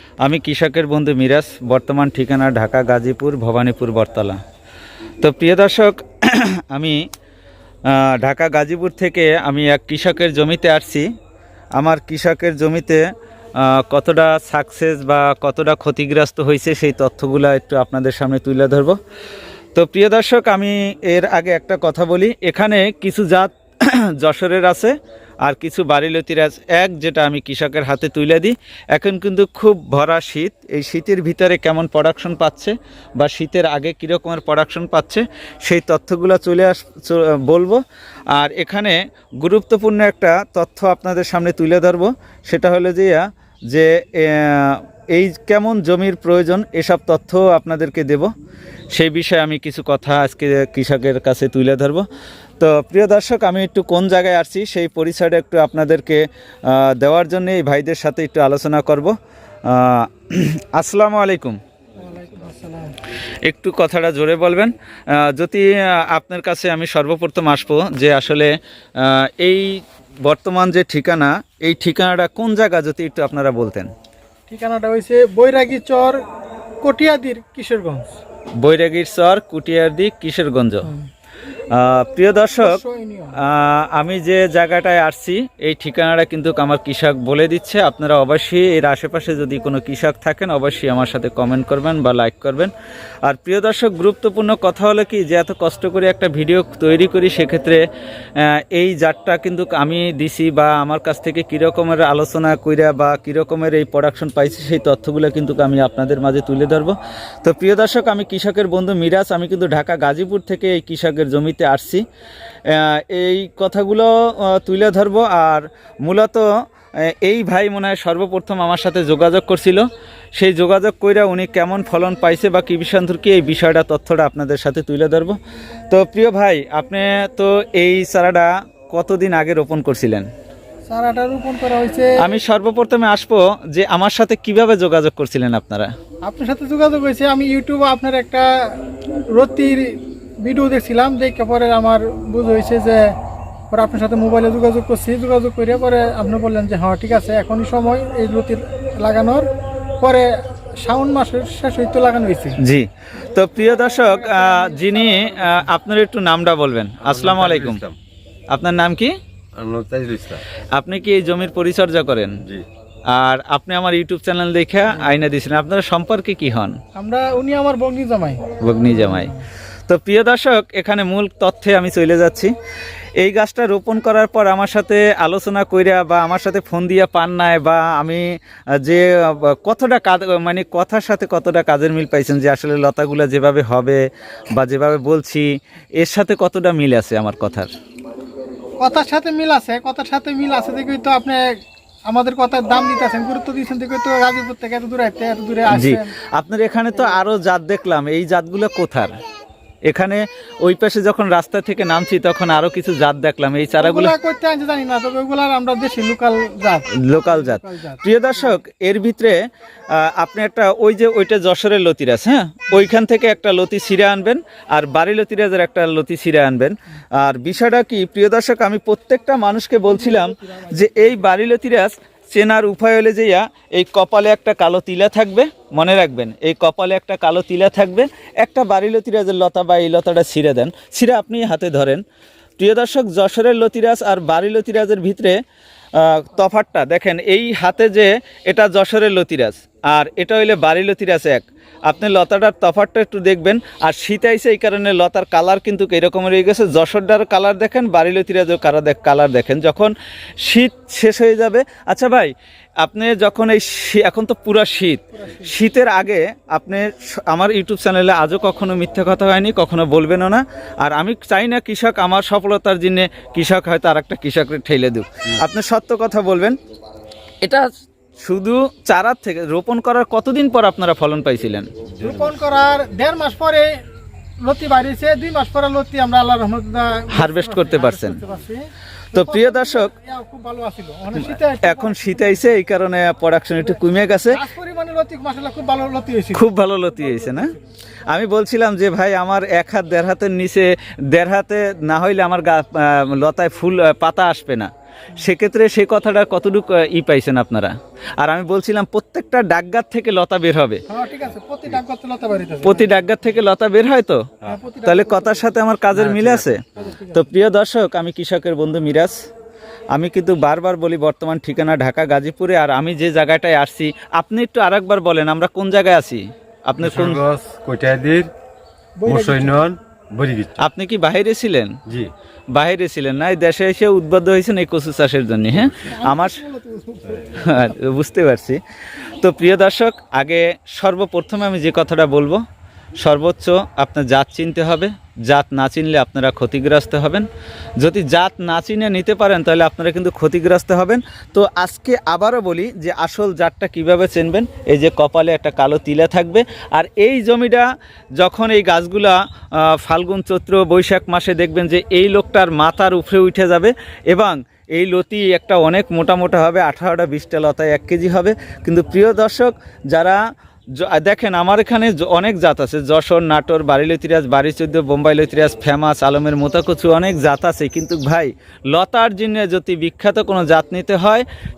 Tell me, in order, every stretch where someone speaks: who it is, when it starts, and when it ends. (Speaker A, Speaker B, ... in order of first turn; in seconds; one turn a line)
Speaker A: 0.2-4.4
Speaker A: 5.2-7.0
Speaker A: 7.9-11.1
Speaker A: 11.8-19.0
Speaker A: 19.7-37.8
Speaker A: 38.3-48.3
Speaker A: 48.9-52.0
Speaker A: 52.6-61.6
Speaker B: 62.0-63.0
Speaker A: 63.5-73.9
Speaker B: 74.5-76.2
Speaker B: 76.8-78.2
Speaker A: 78.6-80.9
Speaker A: 81.7-82.8
Speaker B: 82.6-83.4
Speaker A: 83.4-92.7
Speaker A: 93.2-97.8
Speaker A: 98.4-112.0
Speaker A: 112.7-116.5
Speaker A: 117.0-125.4
Speaker A: 125.9-130.3
Speaker B: 130.9-132.2
Speaker A: 132.2-135.9
Speaker B: 136.2-138.8
Speaker B: 139.3-143.1
Speaker B: 143.7-149.5
Speaker B: 150.0-152.6
Speaker A: 152.6-157.8
Speaker B: 153.6-155.7
Speaker C: 157.0-158.0
Speaker A: 158.5-159.1
Speaker C: 159.5-160.4
Speaker A: 160.7-162.4
Speaker A: 163.1-166.8
Speaker B: 166.9-169.4
Speaker A: 168.6-169.3
Speaker A: 169.9-172.5
Speaker A: 173.2-184.0
Speaker A: 184.5-187.7
Speaker B: 188.8-191.4
Speaker B: 192.1-196.1
Speaker A: 195.7-199.2
Speaker A: 199.8-204.1
Speaker B: 203.8-208.5
Speaker A: 206.9-232.0
Speaker B: 219.8-221.2
Speaker A: 232.6-235.4
Speaker A: 235.9-266.6
Speaker B: 255.1-255.5
Speaker A: 267.4-267.7
Speaker A: 268.2-271.7
Speaker C: 271.9-272.4
Speaker B: 272.0-273.7
Speaker B: 274.4-282.5
Speaker A: 277.1-278.2
Speaker A: 279.1-279.9
Speaker A: 281.2-284.4
Speaker B: 283.6-287.6
Speaker A: 286.3-287.5
Speaker A: 288.1-300.8
Speaker B: 300.9-302.9
Speaker A: 302.6-304.3
Speaker B: 304.4-305.6
Speaker A: 304.8-309.2
Speaker C: 305.9-306.8
Speaker B: 306.8-307.3
Speaker A: 309.9-317.2
Speaker C: 316.8-318.3
Speaker B: 319.0-319.6
Speaker C: 319.1-320.6
Speaker A: 320.6-321.8
Speaker C: 321.9-322.1
Speaker A: 322.5-326.4
Speaker B: 325.8-327.7
Speaker A: 327.3-328.6
Speaker A: 329.2-332.4
Speaker A: 333.0-337.3
Speaker A: 337.8-360.2
Speaker A: 360.8-371.2